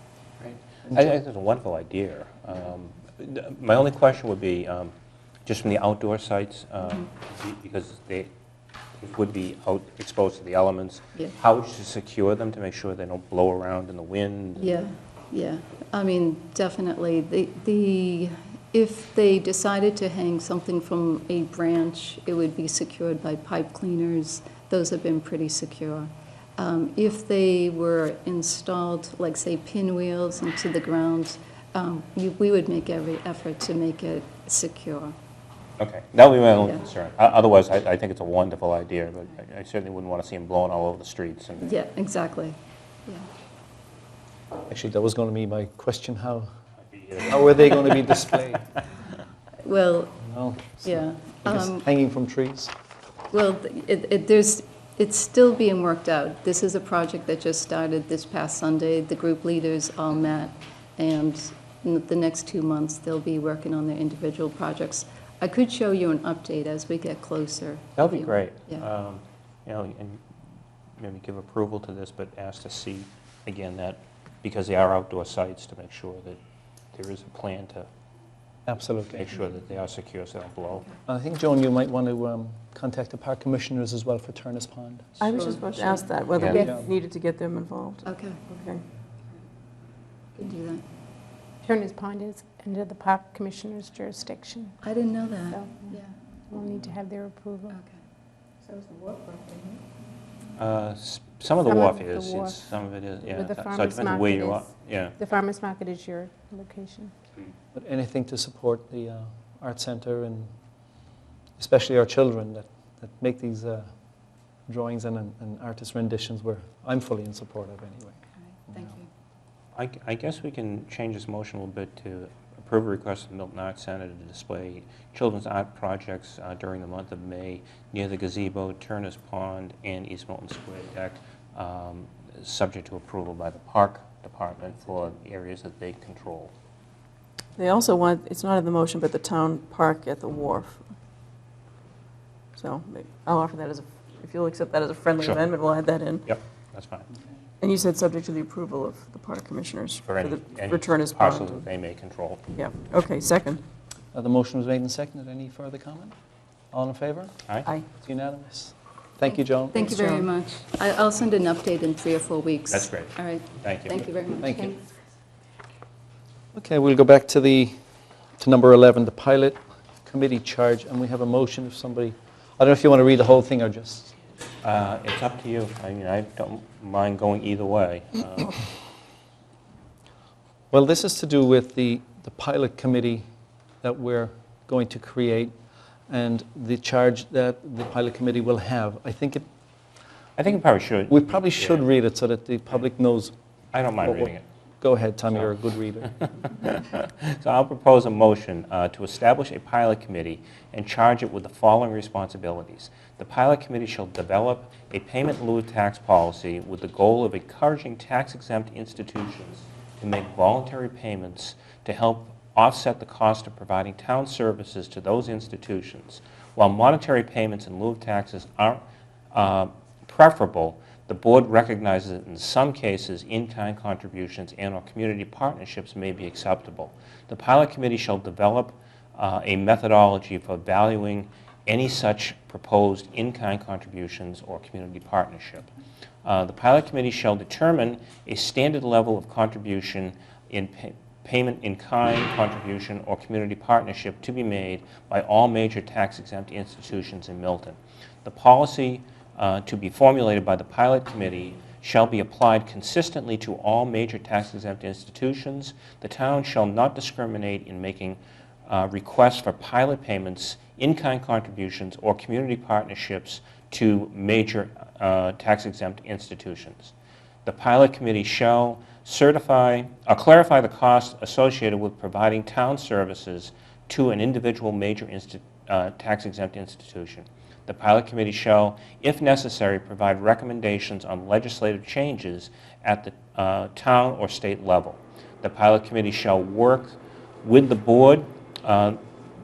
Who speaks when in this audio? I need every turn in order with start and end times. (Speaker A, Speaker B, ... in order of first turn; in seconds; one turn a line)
Speaker A: 0.4-4.9
Speaker A: 5.5-8.3
Speaker A: 9.0-14.8
Speaker B: 14.6-35.1
Speaker A: 35.8-41.7
Speaker B: 41.6-43.3
Speaker C: 44.7-46.5
Speaker A: 46.9-48.2
Speaker C: 47.2-48.7
Speaker B: 49.6-50.2
Speaker C: 50.2-52.7
Speaker B: 50.8-51.8
Speaker B: 53.3-68.8
Speaker A: 68.0-70.2
Speaker A: 71.0-76.4
Speaker A: 76.9-77.9
Speaker C: 78.7-79.3
Speaker A: 79.1-80.9
Speaker C: 81.1-85.1
Speaker D: 85.2-88.8
Speaker A: 86.3-86.6
Speaker C: 86.5-86.8
Speaker B: 88.0-88.5
Speaker B: 90.3-90.8
Speaker E: 91.7-94.8
Speaker B: 94.8-96.1
Speaker E: 95.5-96.0
Speaker E: 96.5-97.8
Speaker B: 97.7-98.0
Speaker D: 99.1-99.6
Speaker A: 100.6-105.2
Speaker E: 101.6-102.7
Speaker E: 103.2-107.1
Speaker C: 107.7-110.5
Speaker C: 111.6-113.9
Speaker C: 114.7-118.2
Speaker B: 118.7-119.1
Speaker A: 119.8-136.5
Speaker D: 137.6-140.9
Speaker D: 142.6-146.3
Speaker A: 146.3-147.1
Speaker D: 147.6-151.6
Speaker A: 150.0-152.4
Speaker D: 152.5-153.6
Speaker C: 154.1-156.1
Speaker C: 156.7-157.3
Speaker C: 157.9-159.9
Speaker B: 159.7-164.8
Speaker D: 159.8-160.2
Speaker A: 162.7-164.0
Speaker C: 166.5-167.7
Speaker C: 168.4-174.1
Speaker A: 174.6-178.7
Speaker C: 180.7-183.2
Speaker C: 183.8-185.5
Speaker C: 186.1-189.4
Speaker A: 190.4-191.8
Speaker C: 191.1-193.3
Speaker A: 193.7-194.4
Speaker C: 194.0-196.1
Speaker A: 196.2-218.8
Speaker A: 219.3-235.7
Speaker A: 236.2-266.9
Speaker A: 267.4-289.0